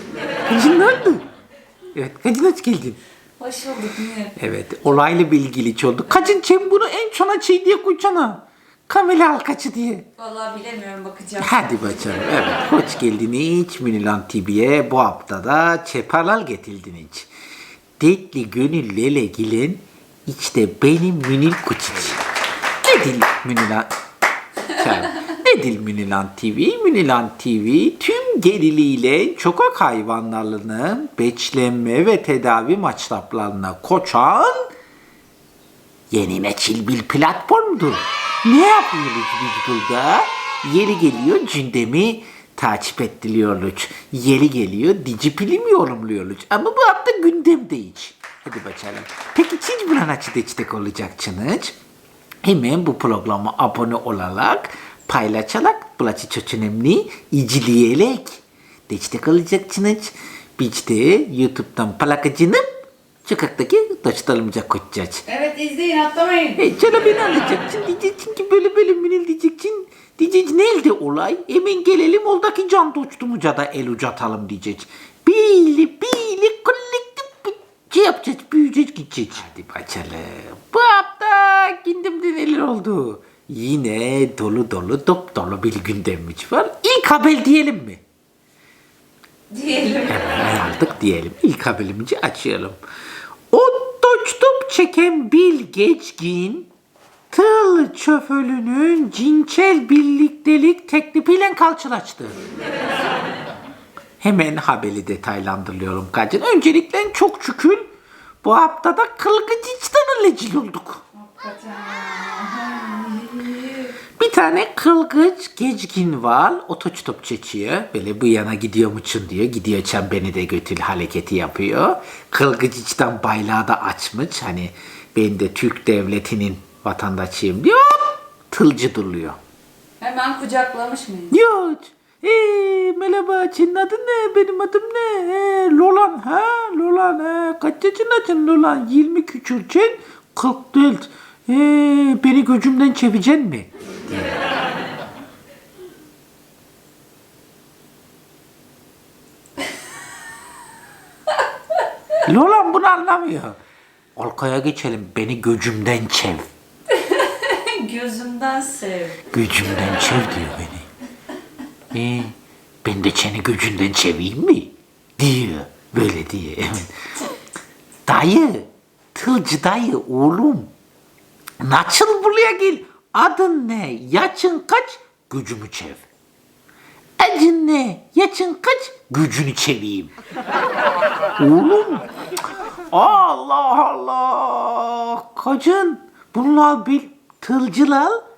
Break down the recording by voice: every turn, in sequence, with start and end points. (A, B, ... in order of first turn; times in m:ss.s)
0:00.5-0:01.3 A
0:02.0-0:03.0 A
0:03.4-0:04.4 B
0:04.4-0:10.1 A
0:06.1-0:06.4 B
0:10.2-0:12.0 B
0:11.4-0:17.3 A
0:18.0-0:22.2 A
0:22.8-0:23.9 A
0:24.7-0:34.7 A
0:36.1-0:51.8 A
0:52.4-1:02.7 A
1:03.2-1:05.2 A
1:05.3-1:06.6 B
1:06.6-1:28.0 A
1:29.5-1:30.2 B
1:30.1-1:32.8 A
1:33.5-1:36.7 A
1:37.3-1:42.4 A
1:42.8-1:43.2 B
1:44.2-1:47.9 A
1:48.4-1:51.0 A
1:51.1-1:54.0 B
1:54.2-2:09.4 A
2:10.0-2:11.4 B
2:11.3-2:24.4 A
2:32.2-2:33.6 A
2:34.2-2:36.5 A
2:36.9-2:39.2 B
2:39.3-2:40.9 A
2:41.9-2:47.0 A
2:48.1-2:50.7 A
2:51.6-2:56.1 A
2:57.2-3:00.1 A
3:01.4-3:02.1 A
3:02.9-3:08.2 A